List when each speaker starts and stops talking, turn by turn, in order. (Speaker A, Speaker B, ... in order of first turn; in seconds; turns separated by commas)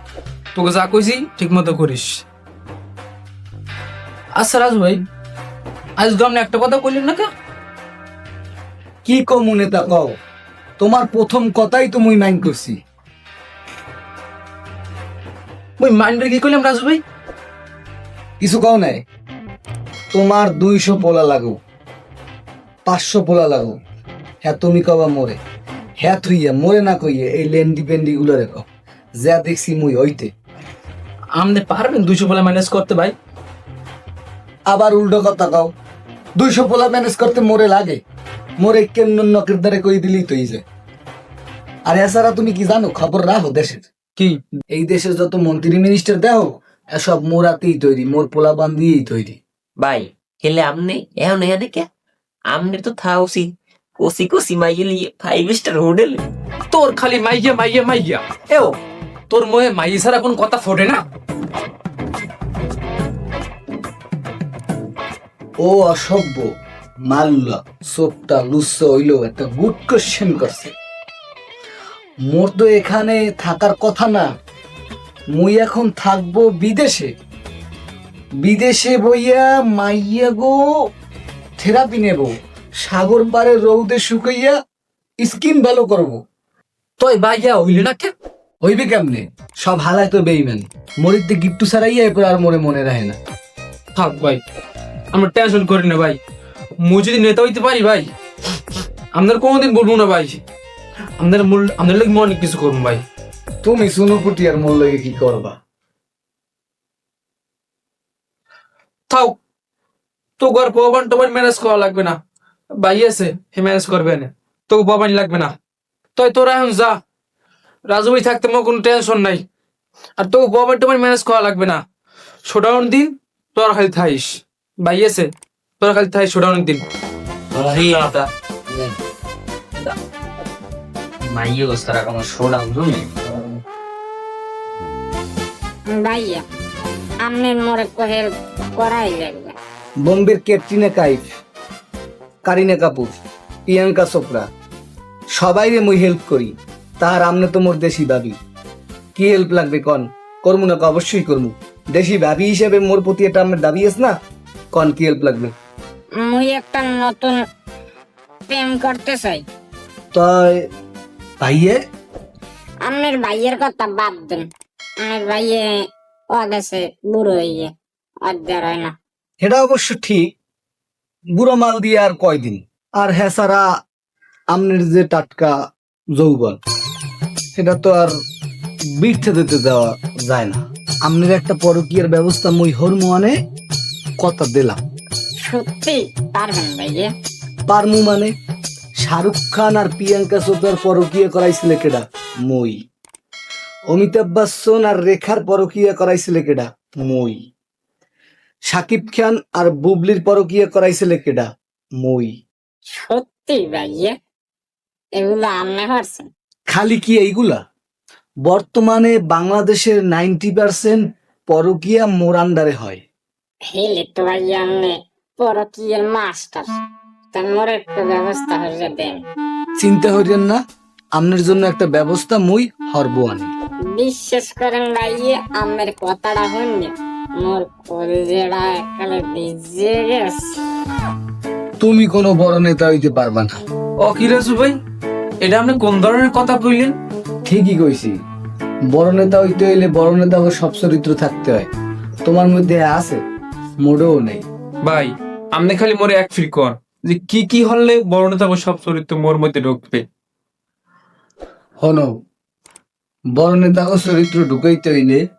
Speaker A: 0.5-2.2, Speaker A: 4.3-5.0, Speaker A: 6.0-7.3, Speaker B: 9.0-10.2, Speaker B: 10.8-12.8, Speaker A: 15.8-17.0, Speaker B: 18.4-19.0, Speaker B: 20.1-21.6, Speaker B: 22.9-23.8, Speaker B: 24.4-25.4, Speaker B: 26.0-28.6, Speaker B: 29.2-30.3, Speaker A: 31.4-33.1, Speaker B: 34.7-35.7, Speaker B: 36.4-38.0, Speaker B: 38.6-40.6, Speaker B: 41.9-43.9, Speaker B: 44.7-49.4, Speaker C: 49.8-51.9, Speaker C: 52.5-56.2, Speaker A: 56.7-58.8, Speaker A: 59.3-61.0, Speaker B: 65.6-66.5, Speaker B: 67.0-70.7, Speaker B: 72.3-74.3, Speaker B: 75.3-77.1, Speaker B: 78.4-80.6, Speaker B: 81.6-84.5, Speaker B: 85.2-86.2, Speaker A: 87.0-88.1, Speaker B: 88.6-93.2, Speaker A: 93.9-94.4, Speaker A: 95.1-96.2, Speaker A: 96.8-98.1, Speaker A: 99.1-100.4, Speaker A: 101.2-103.0, Speaker B: 103.6-105.6, Speaker A: 109.1-109.3, Speaker A: 110.4-112.2, Speaker A: 112.8-115.5, Speaker A: 116.2-117.0, Speaker A: 117.9-119.4, Speaker A: 120.2-121.8, Speaker A: 122.5-125.3, Speaker A: 125.8-126.8, Speaker D: 127.7-128.2, Speaker D: 131.4-133.1, Speaker E: 135.9-136.4, Speaker E: 137.2-139.6, Speaker B: 140.0-141.2, Speaker B: 142.4-143.1, Speaker B: 143.7-144.5, Speaker B: 145.3-148.4, Speaker B: 149.2-154.1, Speaker B: 154.7-155.5, Speaker E: 156.2-157.4, Speaker E: 158.5-159.4, Speaker B: 160.1-160.7, Speaker B: 161.4-161.8, Speaker E: 162.8-164.5, Speaker E: 165.0-165.8, Speaker E: 166.3-167.7, Speaker E: 168.2-168.9, Speaker B: 169.4-170.2, Speaker B: 171.3-173.7, Speaker B: 174.5-175.6, Speaker B: 176.2-176.6, Speaker B: 177.6-178.1, Speaker B: 178.9-183.3, Speaker B: 184.2-184.8, Speaker E: 185.5-187.1, Speaker B: 187.7-188.3, Speaker B: 189.0-192.8, Speaker B: 193.9-197.4, Speaker B: 198.7-202.3, Speaker E: 203.0-204.1, Speaker E: 205.2-206.3, Speaker B: 206.7-207.6, Speaker B: 208.4-213.0, Speaker E: 213.7-216.7, Speaker E: 217.3-219.2, Speaker B: 219.8-220.6, Speaker B: 221.2-223.5, Speaker E: 223.9-230.5, Speaker B: 231.8-233.6, Speaker A: 234.0-234.8, Speaker A: 235.4-236.9, Speaker B: 237.4-238.2, Speaker B: 238.9-241.7, Speaker B: 242.2-243.2, Speaker B: 243.8-244.4, Speaker A: 244.8-250.0, Speaker B: 251.8-252.1, Speaker B: 253.3-255.2